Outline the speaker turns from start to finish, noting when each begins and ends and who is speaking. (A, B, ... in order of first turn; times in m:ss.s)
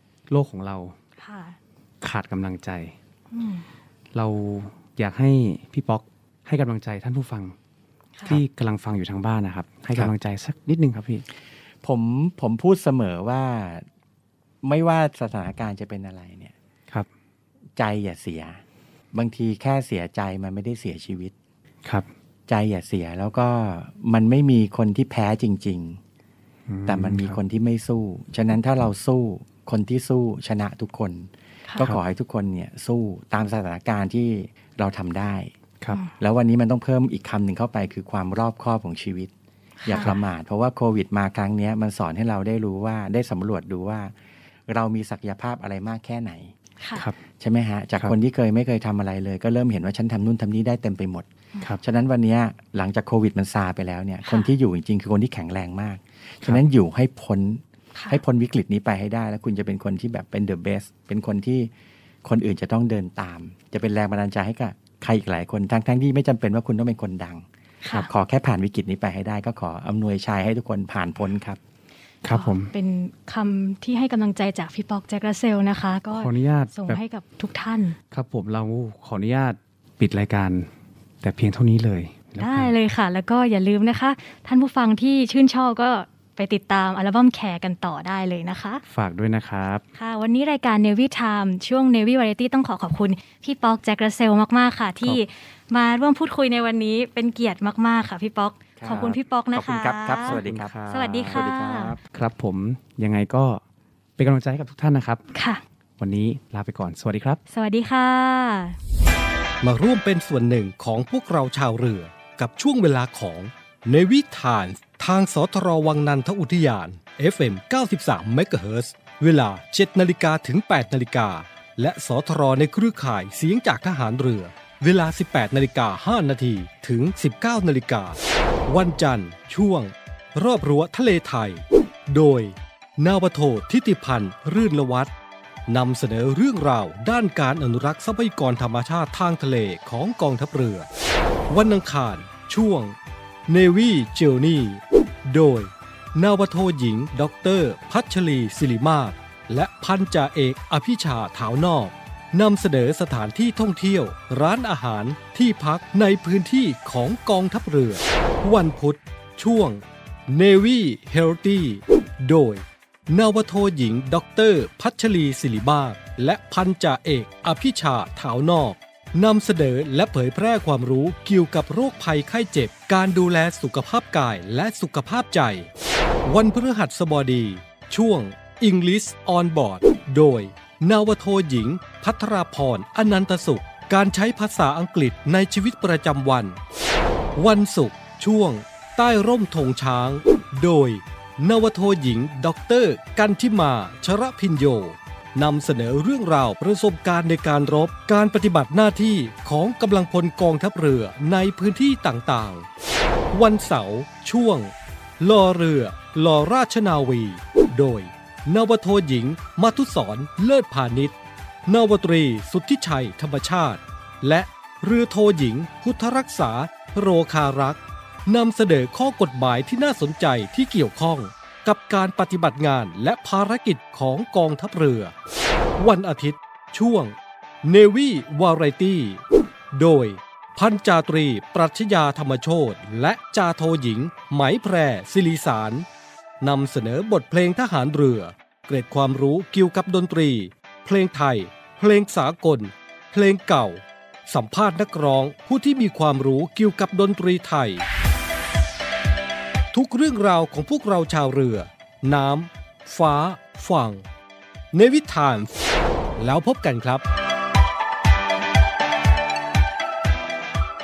0:00.3-0:01.0 A
0:01.2-0:01.6 B
0:02.0-0:03.0 A
0:03.3-0:03.7 B
0:04.1-0:07.6 A
0:08.3-0:11.2 A
0:11.8-0:13.9 C
0:14.6-0:16.5 C
0:17.8-0:18.6 C
0:19.1-0:21.3 C
0:22.5-0:26.0 C
0:26.7-0:27.4 A
0:26.9-0:35.5 C
0:31.7-0:31.9 B
0:36.2-0:39.3 C
0:39.8-0:40.1 B
0:39.9-0:44.1 C
0:39.9-0:40.2 A
0:44.7-0:46.5 C
0:47.4-0:51.3 C
0:51.8-1:01.7 C
0:54.2-0:54.5 B
0:58.0-0:58.2 B
1:02.2-1:07.4 C
1:08.0-1:11.6 C
1:12.2-1:12.7 A
1:12.3-1:18.0 B
1:16.1-1:17.0 A
1:18.1-1:20.7 A
1:21.2-1:22.7 A
1:22.4-1:28.8 B
1:28.9-1:29.8 A
1:30.0-1:42.0 B
1:38.8-1:42.0 C
1:38.9-1:39.2 A
1:40.3-1:40.7 A
1:42.1-1:43.6 A
1:44.2-1:45.2 A
1:45.3-1:45.6 B
1:46.0-1:47.4 A
1:47.5-1:48.8 B
1:49.6-2:15.1 D
2:15.7-2:20.9 D
2:21.5-2:23.0 D
2:23.5-2:55.7 D
2:56.3-3:06.6 D
3:07.4-3:22.7 D
3:23.3-3:31.2 D
3:31.7-3:45.1 D
3:45.8-3:49.2 D
3:49.7-3:55.9 D
3:56.4-4:07.8 D
4:09.7-4:14.0 D
4:14.7-4:15.5 D
4:16.2-4:17.0 D